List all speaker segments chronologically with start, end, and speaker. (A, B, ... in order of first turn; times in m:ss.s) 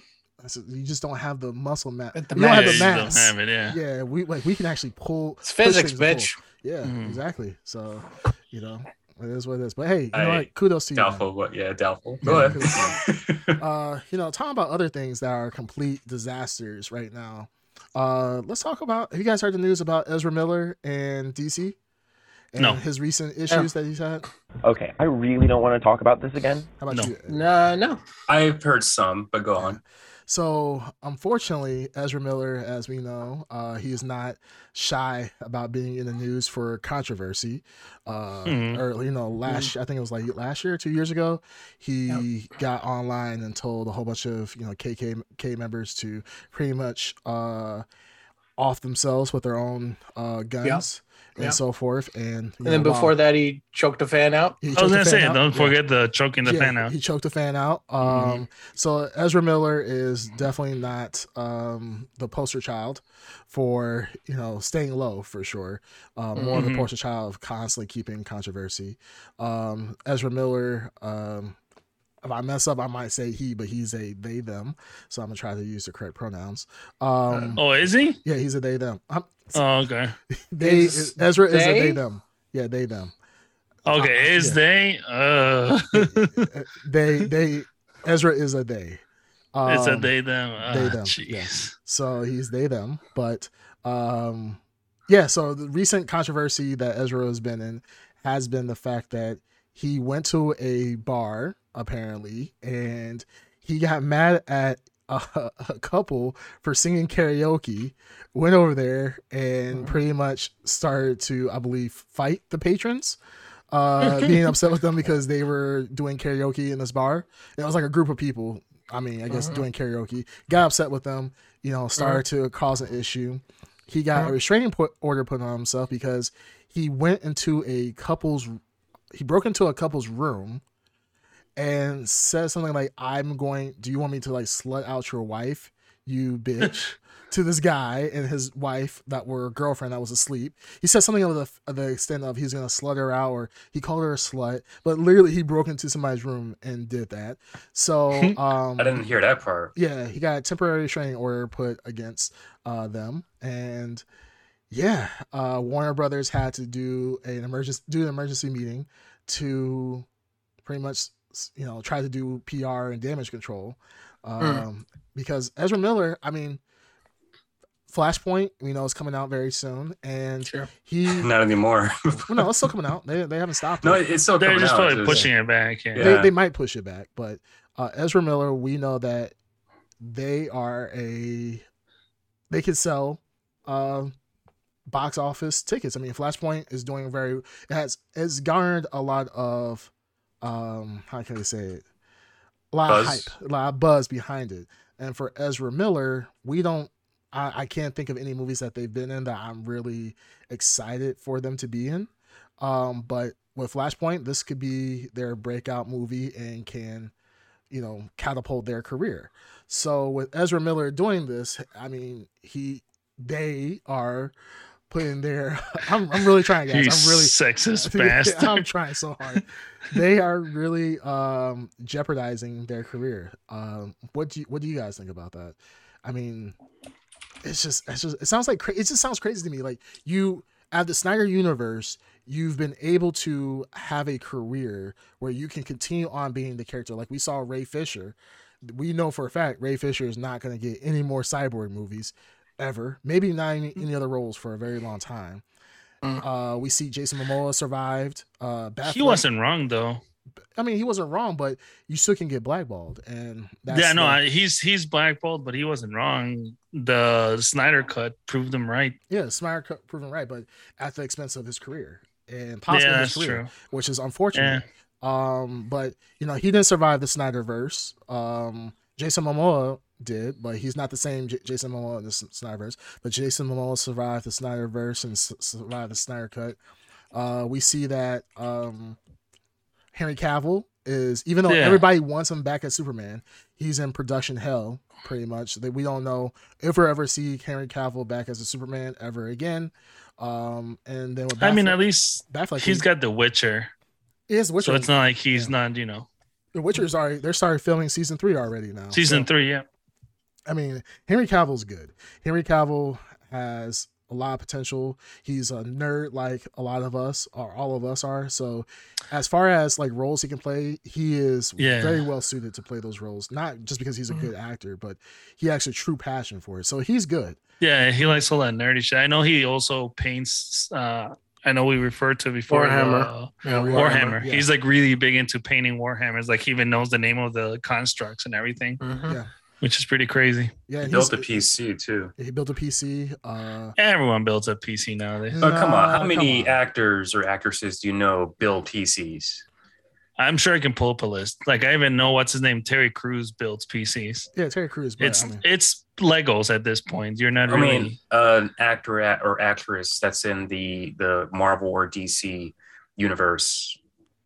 0:00.4-0:11.3 A
0:02.1-0:03.1 B
0:02.4-0:03.8 C
0:05.4-0:06.4 B
0:06.8-0:07.2 C
0:10.1-0:13.6 D
0:12.2-0:13.0 A
0:12.2-0:12.5 C
0:13.6-0:21.8 A
0:22.5-0:24.2 A
0:24.6-0:26.7 E
0:26.8-0:27.4 A
0:27.3-0:28.0 B
0:28.3-0:29.8 D
0:29.6-0:47.8 A
0:38.4-0:38.8 C
0:48.6-0:53.1 A
0:52.6-0:54.6 B
0:54.6-0:55.8 A
0:54.7-0:56.9 C
0:56.4-1:11.6 A
1:06.3-1:06.6 B
1:06.5-1:06.9 C
1:12.2-1:17.6 A
1:17.3-1:17.6 B
1:17.6-1:18.2 C
1:18.2-1:19.6 A
1:19.5-1:20.2 C
1:20.3-1:23.1 A
1:20.6-1:22.0 B
1:23.8-1:26.5 C
1:24.2-1:24.6 A
1:25.9-1:29.0 A
1:29.5-1:53.2 A
1:29.6-1:31.7 C
1:53.7-2:08.6 A
1:54.0-1:54.4 B
1:59.3-1:59.6 B
2:09.1-2:10.6 A
2:11.6-2:29.0 A
2:28.8-2:29.7 D
2:29.8-2:34.0 A
2:34.7-2:40.0 A
2:40.6-2:46.6 A
2:44.4-2:44.6 B
2:47.9-2:51.3 A
2:51.1-2:52.5 D
2:52.3-2:54.0 A
2:53.8-2:55.3 D
2:54.4-2:56.2 C
2:54.8-2:55.3 A
2:55.9-2:56.3 D
2:56.0-2:59.3 A
3:00.0-3:01.6 A
3:02.5-3:04.1 A
3:04.9-3:09.9 A
3:10.4-3:11.8 A
3:12.7-3:27.1 A
3:12.9-3:13.3 D
3:27.7-3:34.3 A
3:34.9-3:46.6 A
3:36.7-3:38.7 C
3:47.4-4:05.4 A
4:06.2-4:09.2 A
4:08.8-4:10.0 C
4:10.6-4:14.2 A
4:13.7-4:19.0 C
4:19.1-4:36.6 A
4:22.7-4:23.5 C
4:24.3-4:24.6 C
4:37.1-4:39.0 A
4:39.9-4:52.8 A
4:41.4-4:41.9 C
4:51.4-4:53.7 C
4:54.3-4:55.5 A
4:54.6-4:56.1 C
4:56.5-4:59.3 A
4:58.9-4:59.6 C
5:00.5-5:17.4 A
5:11.6-5:12.0 C
5:17.6-5:28.8 C
5:22.5-5:24.0 B
5:23.4-5:24.5 A
5:28.8-5:29.2 B
5:29.6-5:30.5 C
5:30.7-5:31.4 A
5:30.8-5:32.1 D
5:32.2-5:33.8 A
5:33.8-5:35.5 C
5:35.3-5:36.6 A
5:35.4-5:39.4 D
5:40.2-5:44.3 C
5:44.4-5:45.4 A
5:45.0-5:48.0 C
5:47.5-5:53.8 D